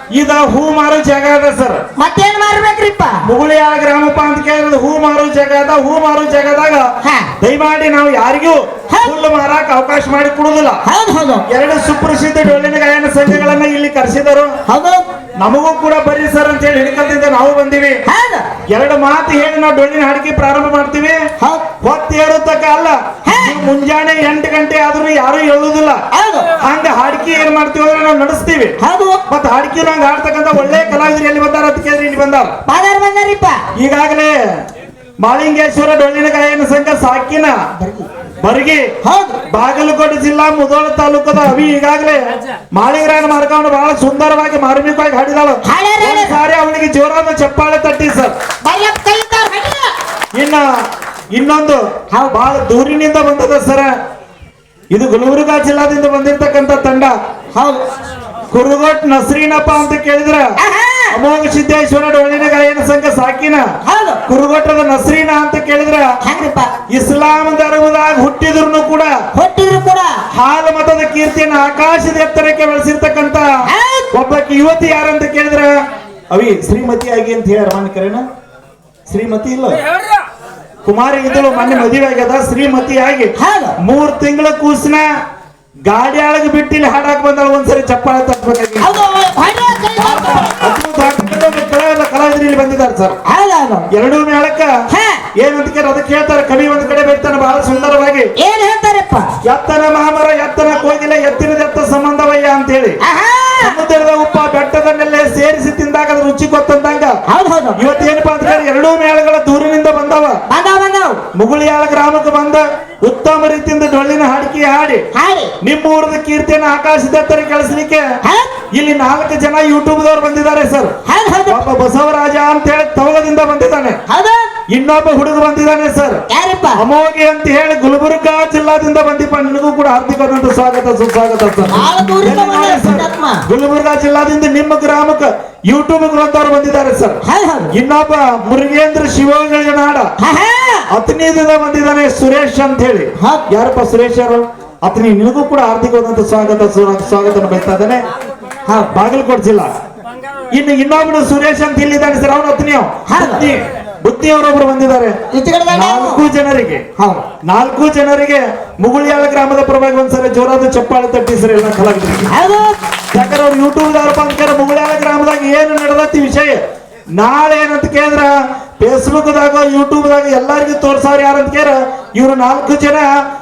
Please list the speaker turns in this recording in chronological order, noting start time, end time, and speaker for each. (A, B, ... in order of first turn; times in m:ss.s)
0:00.1-0:01.8 A
0:02.0-0:03.2 B
0:03.2-0:06.9 A
0:07.0-0:07.3 B
0:07.4-0:10.8 A
0:10.8-0:11.4 B
0:11.5-0:14.5 A
0:14.7-0:15.0 B
0:15.4-0:18.0 A
0:18.1-0:18.5 B
0:18.7-0:21.2 A
0:21.4-0:21.7 B
0:21.8-0:26.0 A
0:23.3-0:23.6 B
0:26.1-0:26.5 B
0:26.6-0:28.8 A
0:28.8-0:29.2 B
0:29.3-0:32.6 A
0:32.7-0:33.6 B
0:33.8-0:34.4 A
0:35.2-0:37.6 A
0:37.8-0:38.1 B
0:38.4-0:38.9 A
0:39.0-0:39.4 B
0:39.5-0:48.3 A
0:45.6-0:46.4 B
0:48.6-0:49.9 B
0:50.4-0:50.7 A
0:51.3-0:54.0 A
0:52.1-0:52.4 B
0:54.9-0:57.2 A
0:57.6-0:57.8 B
0:58.5-1:00.6 A
1:00.6-1:01.2 B
1:01.1-1:03.6 A
1:03.8-1:04.2 B
1:04.3-1:06.1 A
1:06.2-1:06.7 B
1:06.9-1:09.1 A
1:09.3-1:10.2 B
1:10.3-1:15.7 A
1:13.6-1:14.1 B
1:16.3-1:18.2 A
1:19.1-1:19.8 A
1:20.8-1:25.1 A
1:23.4-1:23.8 B
1:25.9-1:29.0 A
1:28.8-1:30.7 B
1:30.1-1:33.2 A
1:33.2-1:33.9 B
1:33.9-1:34.7 A
1:34.9-1:35.3 B
1:35.4-1:38.3 A
1:38.4-1:39.3 B
1:39.4-1:43.0 A
1:43.0-1:43.8 B
1:43.6-1:47.2 A
1:47.3-1:47.8 B
1:47.8-1:50.4 A
1:50.5-1:51.2 B
1:51.4-1:55.0 A
1:55.1-1:55.6 B
1:55.6-1:58.0 A
1:58.2-1:58.6 B
1:58.7-2:01.0 A
2:01.1-2:01.7 B
2:01.5-2:04.0 A
2:04.1-2:04.5 B
2:04.7-2:06.2 A
2:06.3-2:06.8 B
2:06.8-2:17.2 A
2:11.7-2:13.4 B
2:17.2-2:17.7 B
2:17.7-2:20.1 A
2:20.2-2:20.9 B
2:20.9-2:28.0 A
2:23.2-2:23.5 B
2:28.7-2:29.0 B
2:28.9-2:29.7 A
2:30.5-2:35.2 A
2:33.1-2:33.5 B
2:35.3-2:36.3 B
2:35.7-2:36.9 A
2:37.0-2:37.2 B
2:37.4-2:42.3 A
2:42.3-2:42.8 B
2:43.1-2:46.6 A
2:47.2-2:53.1 A